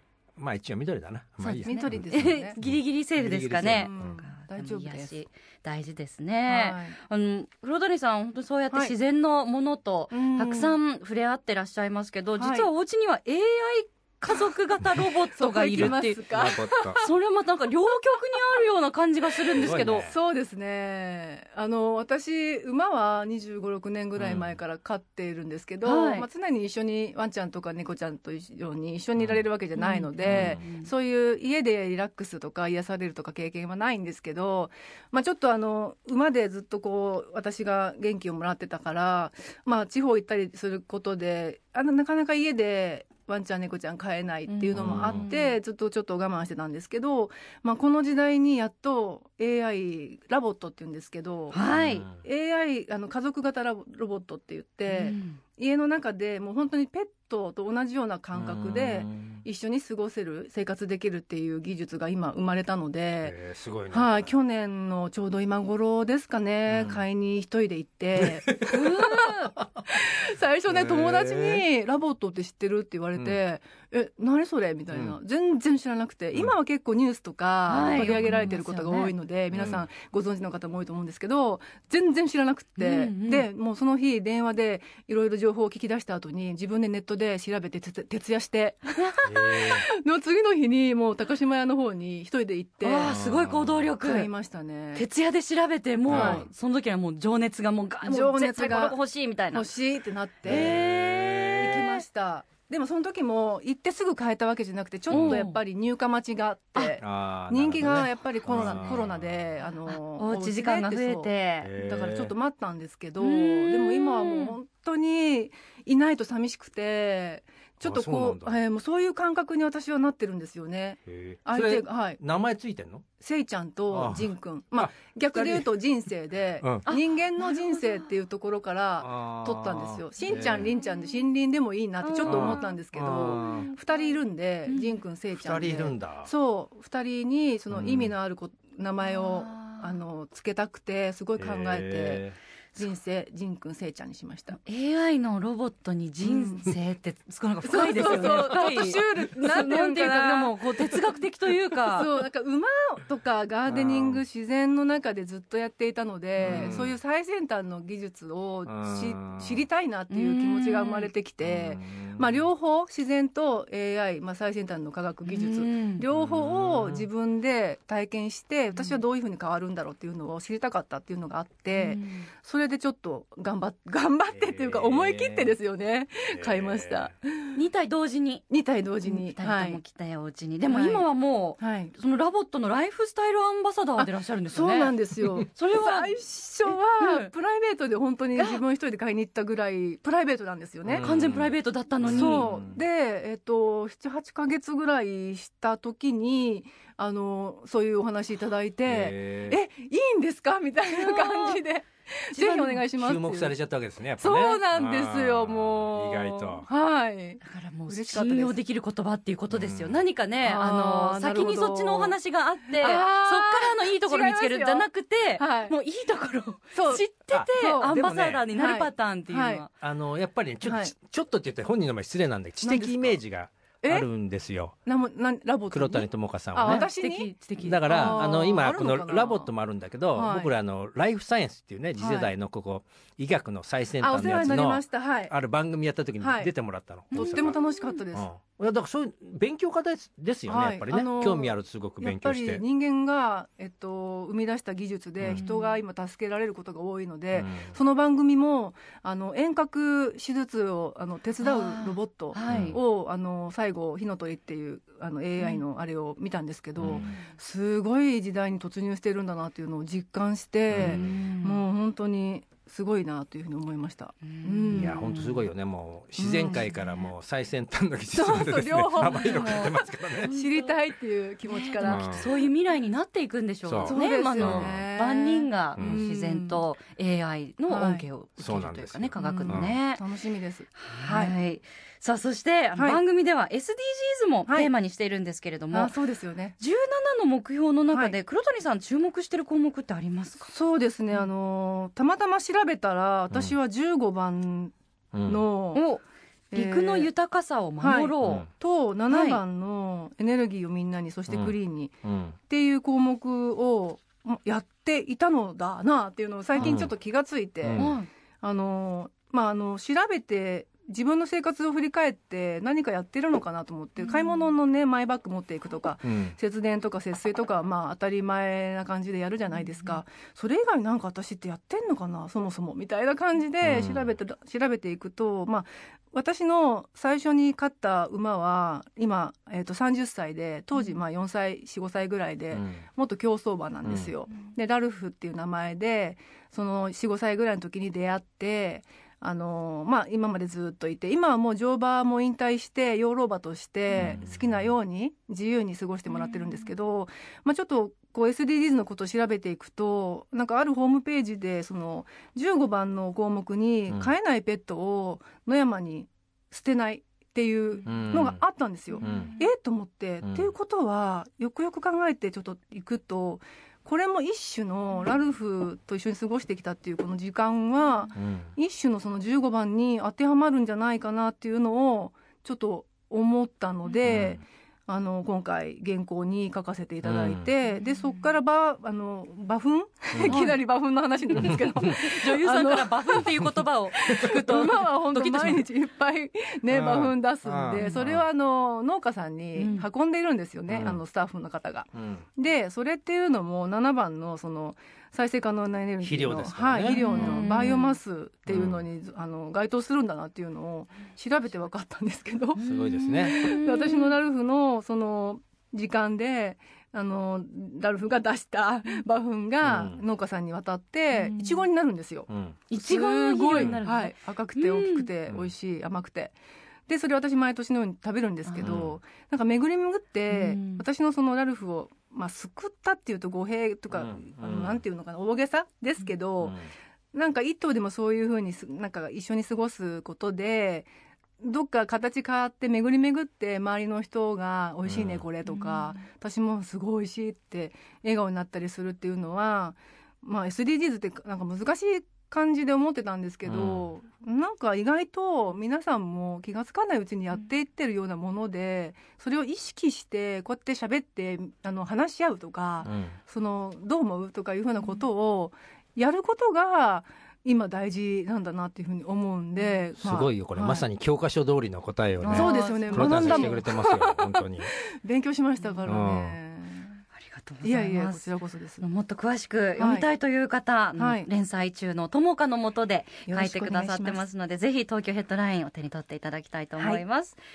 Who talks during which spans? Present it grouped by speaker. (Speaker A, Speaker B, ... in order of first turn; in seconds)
Speaker A: 0.4-4.2, 15.7-17.0, 19.6-20.1, 24.2-24.6, 29.2-29.4, 30.2-30.6, 44.7-45.2, 51.7-52.2, 58.3-59.4, 63.2-64.3, 66.7-67.0, 68.2-69.1, 70.7-71.6, 79.5-79.8, 89.2-89.8, 93.0-93.9, 96.1-96.5, 100.5-101.8, 105.1-105.4, 107.0-109.5, 111.6-112.3, 117.8-118.6, 121.1-123.0, 123.9-125.7, 129.0-130.7, 132.2-133.7, 135.3-136.3, 137.7-138.1, 141.4-142.3, 153.7-154.2, 156.4-157.0, 158.7-159.6, 161.4-162.5, 166.1-167.1, 174.3-175.6, 176.3-177.1, 190.8-192.8, 198.8-199.6, 203.0-206.7, 209.5-210.0, 217.3-218.4, 219.8-224.7, 225.7-226.9, 227.6-237.6, 238.1-242.6, 247.3-247.7, 252.5-252.8, 256.8-257.1, 260.7-261.2, 264.7-270.3, 271.8-272.3, 273.6-274.8, 275.8-276.0, 278.4-279.8, 295.1-295.4, 301.3-302.3, 306.6-306.9, 307.6-307.9, 316.0-316.4, 323.6-324.1, 332.5-332.8, 333.8-334.1, 343.9-344.7, 357.9-358.4, 359.0-359.3, 360.2-360.5, 368.1-368.5, 374.0-374.4, 377.0-377.5, 380.1-380.4, 386.7-388.2, 390.7-391.0, 391.9-392.2, 396.0-397.7, 398.5-398.8, 402.6-403.5, 409.6-410.0, 412.3-412.6, 418.6-419.0, 423.9-424.8, 426.4-426.7, 434.8-435.2, 443.4-443.9, 452.8-453.2, 460.0-464.7, 465.9-466.4
Speaker B: 1.4-20.1, 25.8-26.3, 29.8-30.9, 44.5-45.5, 51.5-52.0, 54.9-55.4, 68.7-69.5, 77.7-79.1, 82.8-83.5, 92.8-94.3, 94.9-99.7, 100.5-102.0, 105.1-105.6, 108.5-109.0, 109.8-111.7, 113.2-114.5, 126.8-128.0, 132.0-132.8, 133.3-133.8, 134.7-135.0, 139.1-139.9, 144.6-152.1, 156.4-156.8, 160.1-161.1, 165.2-166.0, 171.7-172.3, 177.5-178.4, 179.0-184.9, 185.5-186.1, 186.7-187.3, 191.0-192.5, 200.9-201.6, 202.3-202.8, 207.4-219.7, 226.6-228.3, 237.1-238.0, 245.3-245.8, 251.4-252.8, 256.9-257.3, 260.8-261.6, 264.2-265.4, 269.0-270.7, 271.5-280.0, 280.8-285.9, 286.6-290.5, 295.7-298.5, 299.1-299.4, 306.5-306.8, 307.8-308.1, 314.0-314.5, 346.1-346.6, 359.0-359.4, 380.2-380.6, 381.3-385.6, 387.8-388.0, 389.6-389.9, 396.9-397.9, 402.6-404.1, 411.1-411.6, 412.7-415.1, 418.4-418.7, 420.3-420.8, 435.4-436.0, 462.2-463.6, 467.1-468.3, 468.8-477.4
Speaker C: 1.6-2.5, 3.6-5.1, 6.5-7.0, 10.1-10.8, 12.4-12.7, 15.3-17.1, 19.6-51.6, 52.1-63.4, 63.9-93.1, 94.0-95.0, 96.1-96.5, 98.0-99.0, 99.5-100.8, 101.5-122.2, 123.2-144.6, 146.2-146.7, 147.6-150.6, 151.9-177.6, 178.5-179.8, 180.7-181.1, 181.6-181.9, 184.0-191.0, 192.0-203.5, 204.2-208.5, 210.4-212.1, 212.8-214.9, 215.4-215.7, 216.7-218.0, 218.5-219.6, 220.6-220.9, 222.6-223.2, 223.8-224.1, 224.8-229.5, 230.1-230.5, 232.0-232.3, 234.0-235.3, 236.2-236.5, 237.1-238.3, 240.5-265.0, 266.2-266.7, 268.1-272.3, 273.8-276.6, 277.7-278.0, 279.2-281.3, 285.7-286.6, 290.5-294.7, 295.2-295.8, 296.5-297.1, 297.8-302.0, 302.5-383.4, 384.0-402.6, 403.2-416.3, 416.9-426.6, 427.1-430.9, 431.4-460.9, 462.3-467.0, 467.6-468.8, 469.8-470.1, 470.9-471.3, 473.3-474.2, 476.8-477.0